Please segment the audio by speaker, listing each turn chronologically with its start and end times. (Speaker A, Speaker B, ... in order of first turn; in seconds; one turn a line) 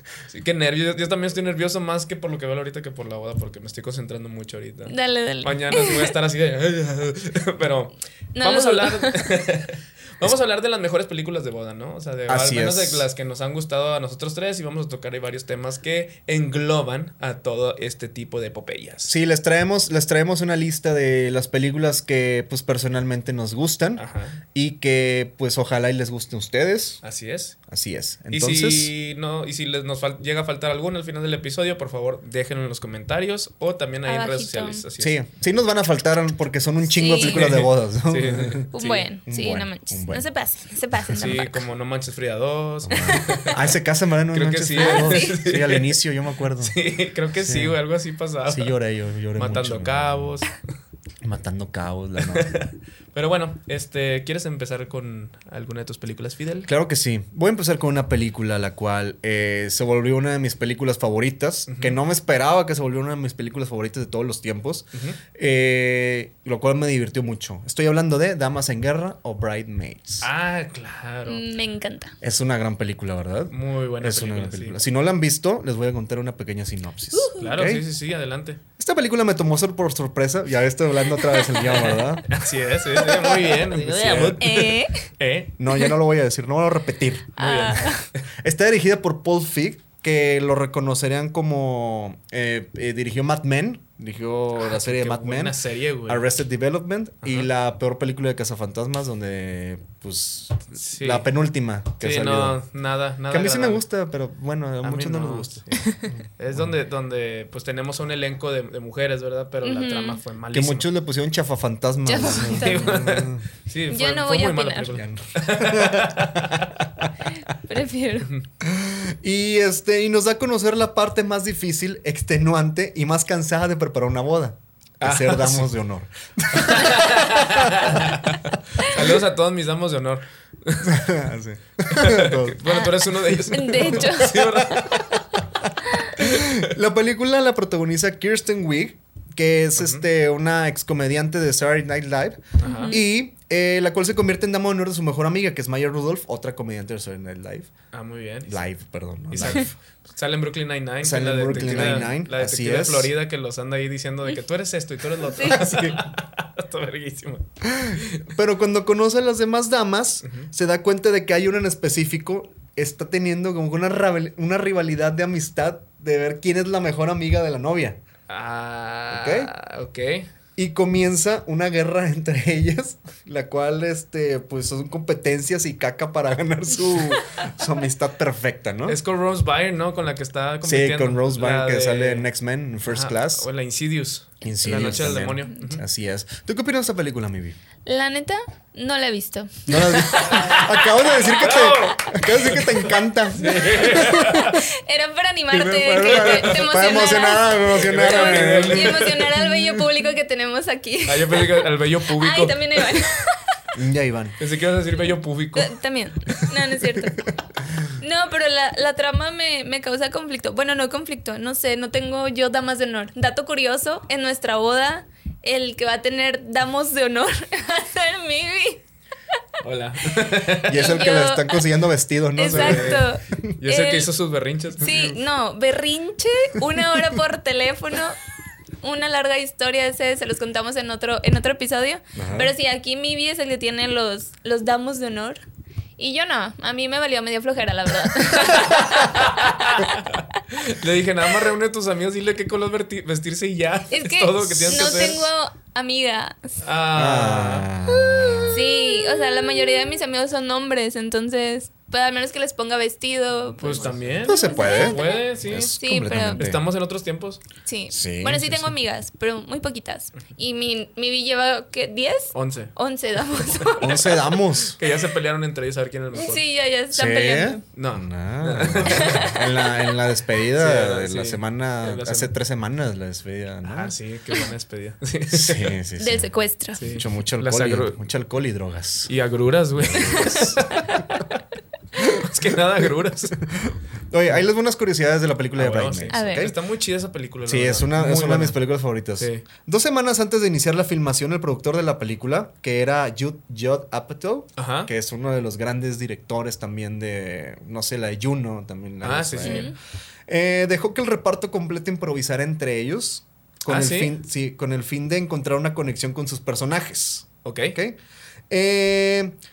Speaker A: 0.3-19.1
Speaker B: 4.9-6.1
Speaker B: 8.3-9.2
Speaker C: 12.3-13.0
Speaker C: 19.1-27.0
Speaker A: 24.0-24.4
Speaker A: 27.0-27.6
Speaker C: 27.7-28.9
Speaker A: 28.3-35.2
Speaker B: 34.0-34.8
Speaker C: 35.0-38.7
Speaker B: 36.9-37.6
Speaker A: 37.2-39.0
Speaker B: 38.7-41.6
Speaker C: 39.2-40.2
Speaker A: 41.1-43.6
Speaker C: 42.9-46.8
Speaker B: 42.9-43.6
Speaker A: 44.3-46.0
Speaker B: 44.8-45.4
Speaker A: 46.6-48.8
Speaker C: 47.4-47.8
Speaker C: 48.5-50.4
Speaker A: 49.3-50.5
Speaker C: 51.2-52.5
Speaker A: 52.3-56.7
Speaker C: 56.7-70.3
Speaker A: 61.7-62.0
Speaker A: 64.9-65.2
Speaker A: 70.2-71.4
Speaker B: 71.3-72.1
Speaker C: 72.2-77.8
Speaker A: 73.5-74.8
Speaker B: 77.1-77.5
Speaker A: 77.4-78.6
Speaker C: 78.8-82.3
Speaker A: 81.6-85.5
Speaker C: 82.9-84.5
Speaker B: 84.4-85.0
Speaker C: 85.6-102.6
Speaker A: 87.4-87.9
Speaker B: 87.4-88.0
Speaker A: 94.6-96.2
Speaker A: 97.2-97.5
Speaker A: 100.7-101.3
Speaker A: 102.0-103.8
Speaker C: 103.3-106.7
Speaker A: 104.8-110.9
Speaker B: 109.6-110.2
Speaker C: 110.5-113.4
Speaker B: 112.0-113.1
Speaker A: 112.5-116.8
Speaker B: 113.9-115.0
Speaker C: 114.9-117.1
Speaker B: 117.3-118.3
Speaker C: 118.6-128.1
Speaker A: 125.0-125.7
Speaker A: 126.5-131.1
Speaker C: 130.8-132.6
Speaker A: 131.9-135.2
Speaker B: 132.7-134.5
Speaker C: 133.9-135.1
Speaker A: 136.2-136.6
Speaker C: 136.2-147.7
Speaker A: 139.8-140.0
Speaker A: 142.6-142.9
Speaker B: 142.6-143.0
Speaker A: 147.9-148.6
Speaker C: 148.5-149.7
Speaker A: 149.3-158.3
Speaker C: 151.0-153.1
Speaker B: 155.3-155.6
Speaker C: 155.4-156.0
Speaker C: 157.6-168.0
Speaker A: 160.2-160.5
Speaker A: 168.3-170.3
Speaker C: 169.1-169.5
Speaker C: 170.6-179.0
Speaker A: 178.8-182.3
Speaker C: 180.6-183.5
Speaker A: 182.8-185.8
Speaker C: 184.4-187.6
Speaker B: 184.7-185.7
Speaker B: 187.8-190.5
Speaker C: 189.7-194.5
Speaker A: 190.2-194.6
Speaker B: 194.2-203.4
Speaker C: 195.5-199.1
Speaker A: 196.0-196.6
Speaker A: 197.7-199.4
Speaker A: 201.1-202.6
Speaker C: 203.7-204.4
Speaker A: 204.4-205.7
Speaker B: 205.5-207.3
Speaker B: 208.0-218.8
Speaker A: 219.6-220.8
Speaker B: 220.7-221.6
Speaker C: 220.7-223.4
Speaker B: 222.3-224.1
Speaker A: 222.4-223.0
Speaker A: 223.6-224.9
Speaker B: 224.8-228.2
Speaker C: 224.8-225.2
Speaker B: 228.8-235.4
Speaker C: 232.1-232.5
Speaker B: 236.0-240.0
Speaker A: 238.3-245.3
Speaker B: 243.9-246.6
Speaker A: 246.6-247.7
Speaker C: 246.9-248.8
Speaker B: 248.4-255.2
Speaker A: 253.6-255.7
Speaker C: 254.2-256.6
Speaker B: 255.8-256.4
Speaker A: 256.4-257.4
Speaker B: 257.6-264.2
Speaker C: 257.9-258.7
Speaker A: 262.3-262.7
Speaker C: 263.8-264.8
Speaker A: 264.8-266.4
Speaker B: 266.1-267.6
Speaker C: 266.9-273.9
Speaker A: 267.7-269.4
Speaker B: 268.9-269.2
Speaker A: 270.5-272.3
Speaker A: 273.6-275.7
Speaker C: 275.3-276.3
Speaker B: 276.0-276.8
Speaker A: 276.8-278.0
Speaker C: 276.8-279.1
Speaker A: 279.1-281.4
Speaker C: 279.8-280.6
Speaker A: 282.0-283.4
Speaker C: 282.0-282.3
Speaker C: 283.4-286.6
Speaker A: 285.5-288.6
Speaker B: 286.1-286.5
Speaker C: 287.4-299.7
Speaker A: 289.2-289.4
Speaker A: 294.6-294.9
Speaker A: 299.0-299.7
Speaker B: 299.4-299.7
Speaker C: 300.3-308.0
Speaker A: 303.6-304.1
Speaker A: 307.4-307.8
Speaker C: 308.5-309.4